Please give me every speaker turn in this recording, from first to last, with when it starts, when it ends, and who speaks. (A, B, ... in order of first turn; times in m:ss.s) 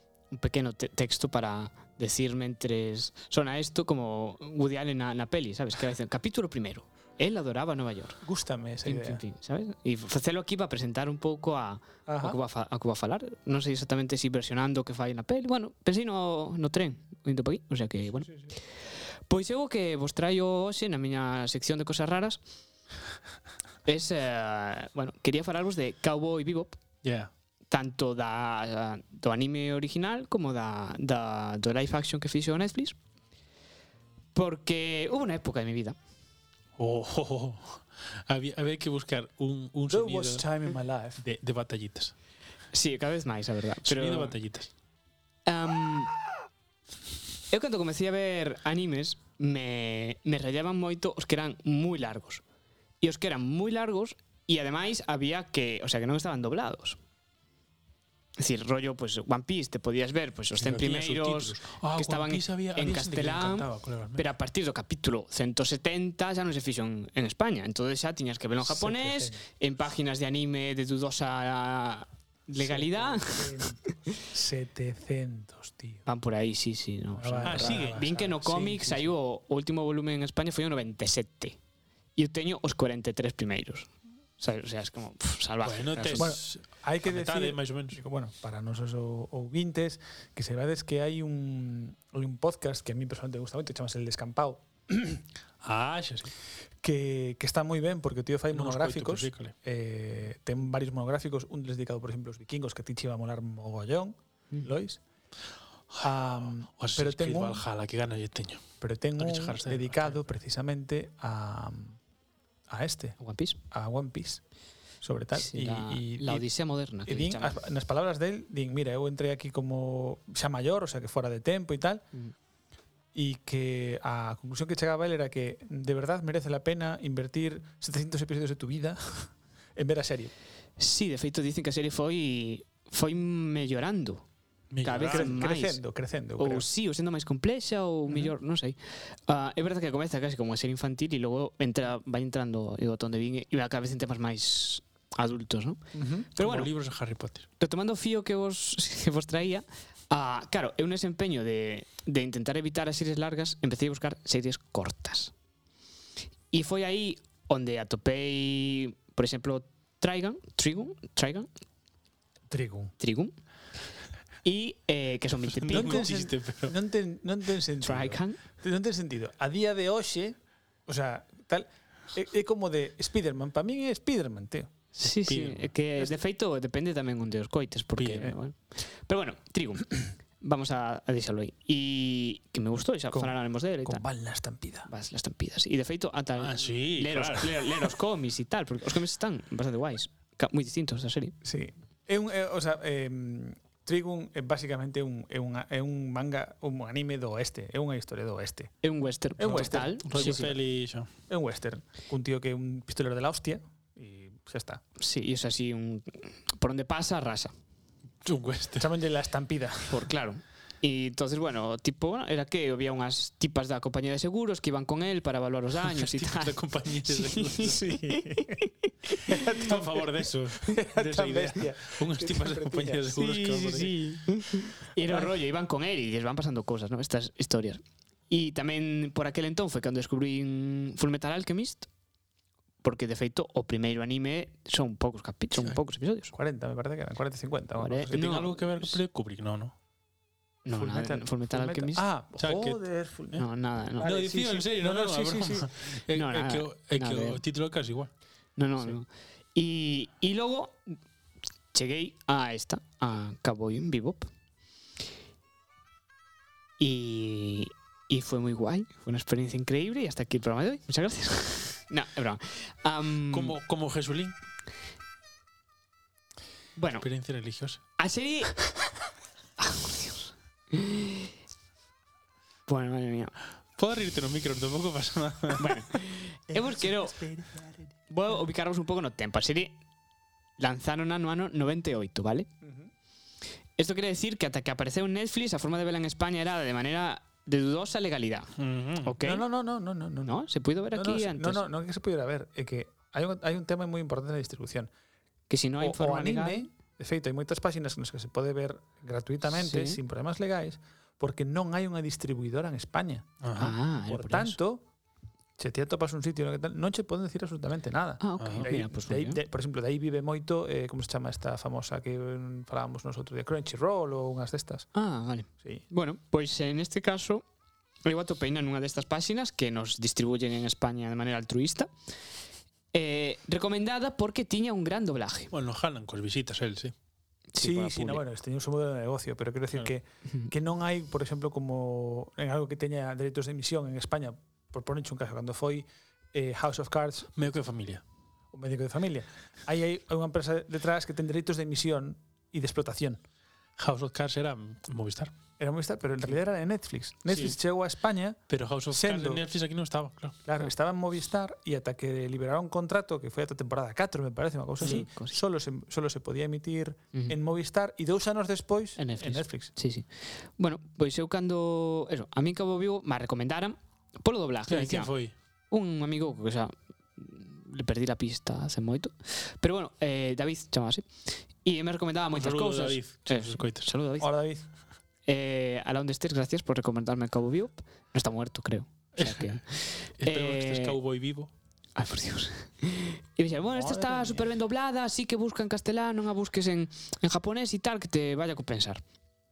0:00.3-0:08.2 A
0:08.2-0:09.2 B
0:08.8-0:18.6 A
0:12.0-0:12.4 B
0:19.3-0:22.4 A
0:23.8-0:26.8 A
0:27.0-0:27.3 C
0:27.7-0:32.9 A
0:34.3-0:36.0 A
0:36.8-0:40.4 C
0:39.9-0:41.2 B
0:41.2-0:42.1 C
0:42.7-0:44.4 A
0:43.8-0:44.7 C
0:45.4-0:46.2 A
0:47.5-0:52.4 A
0:53.0-0:57.0 A
0:58.4-1:14.1 A
1:00.6-1:04.3 C
1:08.6-1:09.4 B
1:12.6-1:16.0 B
1:16.0-1:21.6 A
1:17.1-1:19.1 B
1:17.4-1:18.1 C
1:22.2-1:26.3 A
1:25.6-1:28.0 C
1:26.1-1:35.2 B
1:35.6-1:36.3 C
1:36.8-1:45.0 B
1:38.5-1:39.5 C
1:46.0-1:47.6 B
1:46.8-1:48.6 C
1:48.8-1:52.0 B
1:49.2-1:50.2 C
1:52.7-1:53.2 B
1:53.2-1:53.6 A
1:53.7-1:54.4 B
1:55.0-1:56.4 B
1:55.3-1:57.6 A
1:57.0-2:02.0 B
2:03.1-2:10.3 B
2:10.8-2:14.2 A
2:14.7-2:15.4 C
2:14.8-2:15.8 A
2:15.0-2:16.7 B
2:16.4-2:25.8 A
2:18.1-2:18.3 B
2:25.9-2:26.3 B
2:26.3-2:26.7 A
2:26.4-2:27.4 C
2:27.6-2:35.3 A
2:36.5-2:41.5 A
2:42.5-2:42.9 B
2:43.0-2:43.3 A
2:44.4-2:46.1 A
2:45.4-2:46.7 C
2:45.7-2:54.7 B
2:47.8-2:48.4 A
2:54.9-3:04.0 A
2:55.2-2:55.7 C
2:58.0-2:58.3 C
3:03.1-3:04.9 B
3:04.9-3:11.3 A
3:06.4-3:07.9 C
3:11.4-3:18.7 B
3:18.8-3:20.5 A
3:19.4-3:20.5 B
3:19.4-3:21.1 C
3:21.3-3:24.8 B
3:25.0-3:27.5 A
3:28.2-3:28.9 C
3:28.8-3:30.0 B
3:29.9-3:38.7 A
3:35.8-3:37.9 C
3:37.8-3:38.6 B
3:39.2-3:43.2 B
3:39.2-3:44.2 C
3:43.1-3:51.9 A
3:45.0-3:45.3 B
3:52.8-3:56.3 A
3:56.3-3:58.3 B
3:57.8-3:59.0 A
3:58.1-3:59.7 C
4:00.6-4:02.0 A
4:00.7-4:03.4 B
4:02.4-4:03.4 C
4:03.4-4:04.1 A
4:04.0-4:05.7 B
4:04.0-4:08.1 C
4:06.1-4:07.4 A
4:08.6-4:10.9 A
4:11.7-4:14.3 A
4:16.8-4:23.6 A
4:23.3-4:24.4 C
4:26.8-4:27.0 A
4:27.0-4:27.8 C
4:28.0-4:28.7 A
4:29.6-4:31.3 A
4:32.7-4:33.3 A
4:33.8-4:35.8 C
4:35.6-4:37.2 A
4:36.5-4:37.8 B
4:38.1-4:39.8 A
4:40.6-4:42.5 A
4:42.6-4:42.9 B
4:43.8-4:48.5 A
4:48.6-4:49.2 C
4:49.0-4:49.4 A
4:49.2-4:50.3 B
4:50.2-4:51.6 A
4:50.9-4:54.9 B
4:55.5-4:56.6 A
4:55.8-5:03.3 B
4:59.5-5:00.0 A
5:03.4-5:03.8 C
5:03.6-5:04.6 A
5:04.1-5:04.8 B
5:05.6-5:14.9 B
5:08.2-5:09.4 A
5:08.4-5:08.7 C
5:14.9-5:17.4 A
5:18.0-5:21.9 A
5:22.9-5:25.5 A
5:25.5-5:26.9 C
5:27.5-5:28.2 A
5:27.6-5:37.4 B
5:37.4-5:38.0 C
5:38.5-5:43.2 B
5:43.8-5:45.3 C
5:45.6-5:49.4 B
5:47.3-5:47.6 C
5:48.5-5:50.4 C
5:50.4-5:59.7 B
5:54.8-5:55.4 A
5:59.0-6:05.1 A
6:04.7-6:05.3 C
6:05.7-6:14.3 A
6:12.3-6:13.9 C
6:14.2-6:14.6 B
6:15.2-6:21.0 A
6:19.2-6:19.6 C
6:20.2-6:21.5 C
6:22.0-6:29.0 A
6:23.7-6:24.5 B